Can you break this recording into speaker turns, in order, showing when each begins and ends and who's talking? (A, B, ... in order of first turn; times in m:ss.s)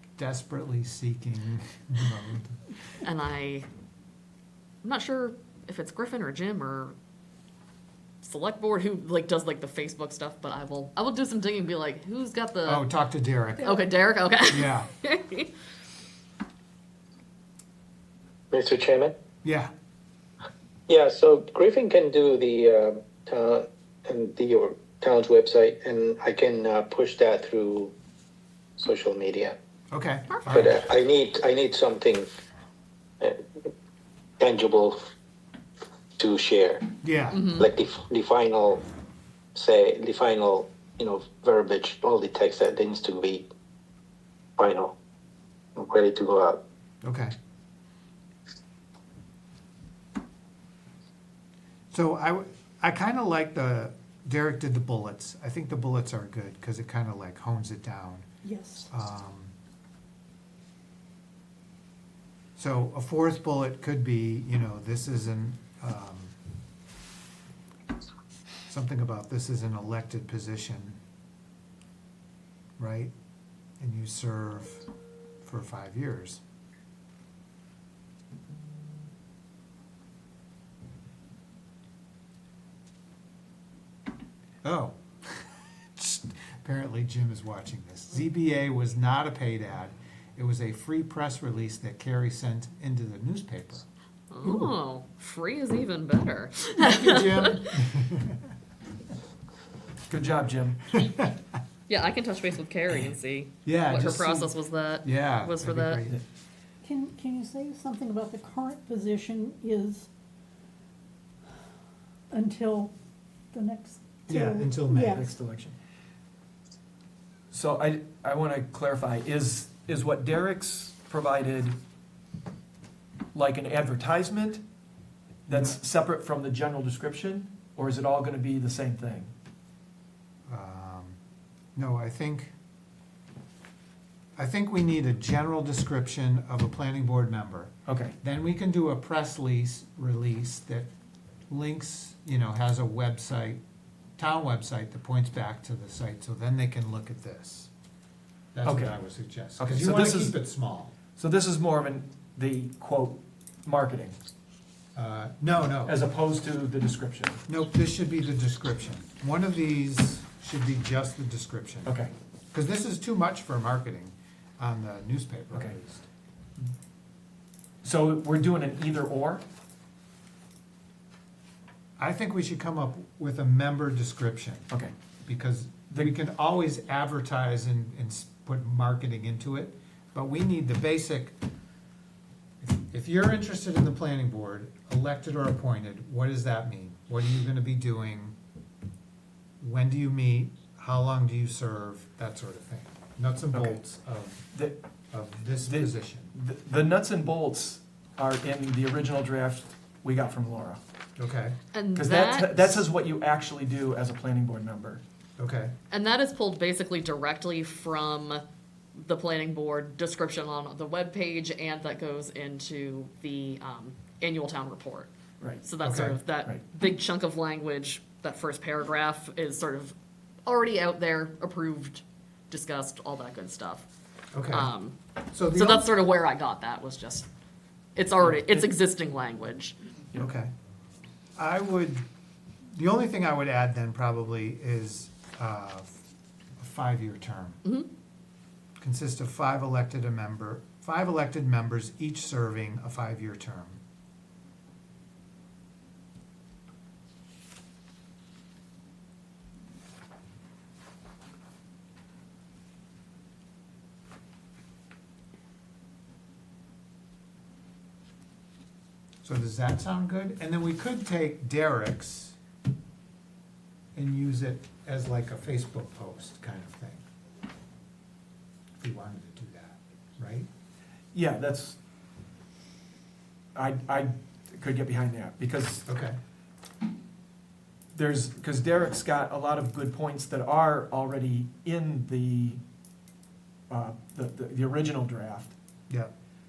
0:00.2-0:02.6 A
0:03.0-0:03.7 B
0:04.8-0:06.9 B
0:08.2-0:12.9 B
0:12.7-0:13.7 A
0:13.6-0:15.5 B
0:14.5-0:14.9 A
0:18.5-0:19.2 C
0:19.4-0:19.7 A
0:20.9-0:27.9 C
0:28.8-0:29.6 C
0:29.9-0:30.8 A
0:30.3-0:30.7 B
0:30.5-0:32.3 C
0:33.2-0:33.7 C
0:34.4-0:35.0 C
0:36.2-0:36.9 C
0:37.0-0:37.5 A
0:37.3-0:37.7 B
0:37.6-0:38.9 C
0:39.6-0:43.5 C
0:44.6-0:45.0 C
0:45.8-0:46.6 C
0:47.0-0:47.3 A
0:51.9-0:58.3 A
0:58.4-0:58.9 D
0:58.9-0:59.5 A
1:02.6-1:06.4 A
1:08.7-1:11.0 A
1:12.8-1:13.1 A
1:13.8-1:14.9 A
1:15.4-1:16.4 A
1:24.6-1:33.8 A
1:34.3-1:37.9 B
1:34.4-1:34.7 A
1:36.8-1:38.4 A
1:40.1-1:40.8 E
1:40.9-1:41.3 A
1:41.9-1:46.0 B
1:43.6-1:46.2 A
1:46.8-1:50.1 D
1:52.3-1:52.9 D
1:53.5-1:55.3 D
1:54.3-1:55.2 A
1:55.0-1:55.8 E
1:57.5-2:01.8 E
2:03.3-2:04.6 E
2:05.5-2:09.3 E
2:10.5-2:11.2 A
2:11.8-2:12.5 A
2:14.4-2:20.9 A
2:17.9-2:18.2 E
2:21.5-2:23.6 A
2:24.2-2:27.7 A
2:28.5-2:30.9 A
2:28.6-2:29.0 E
2:29.6-2:30.4 E
2:31.2-2:34.2 E
2:35.0-2:36.0 A
2:35.9-2:37.4 E
2:37.5-2:42.0 A
2:41.9-2:42.1 E
2:42.5-2:46.0 A
2:47.8-2:49.4 E
2:52.0-2:54.7 A
2:55.2-3:01.4 A
3:02.6-3:08.4 A
3:09.6-3:14.5 A
3:13.5-3:13.8 E
3:14.5-3:14.8 E
3:15.1-3:16.3 A
3:15.7-3:20.8 E
3:21.2-3:21.6 A
3:21.7-3:22.9 B
3:22.0-3:25.0 E
3:25.4-3:25.8 A
3:25.9-3:28.4 B
3:29.0-3:35.1 B
3:35.6-3:40.0 B
3:35.8-3:36.2 A
3:40.5-3:43.9 B
3:44.3-3:44.7 A
3:44.5-3:47.3 B
3:45.3-3:45.9 A
3:48.0-3:49.8 B
3:50.2-3:50.5 A
3:51.4-3:52.0 A
3:52.7-3:55.9 A
3:56.6-3:57.6 A
3:57.6-3:57.9 B
3:58.8-4:03.8 A
4:19.2-4:22.4 A
4:24.0-4:27.1 A
4:28.8-4:30.5 A
4:31.1-4:31.8 E
4:33.6-4:35.8 E
4:35.9-4:36.2 A
4:37.9-4:42.6 E
4:43.7-4:45.6 E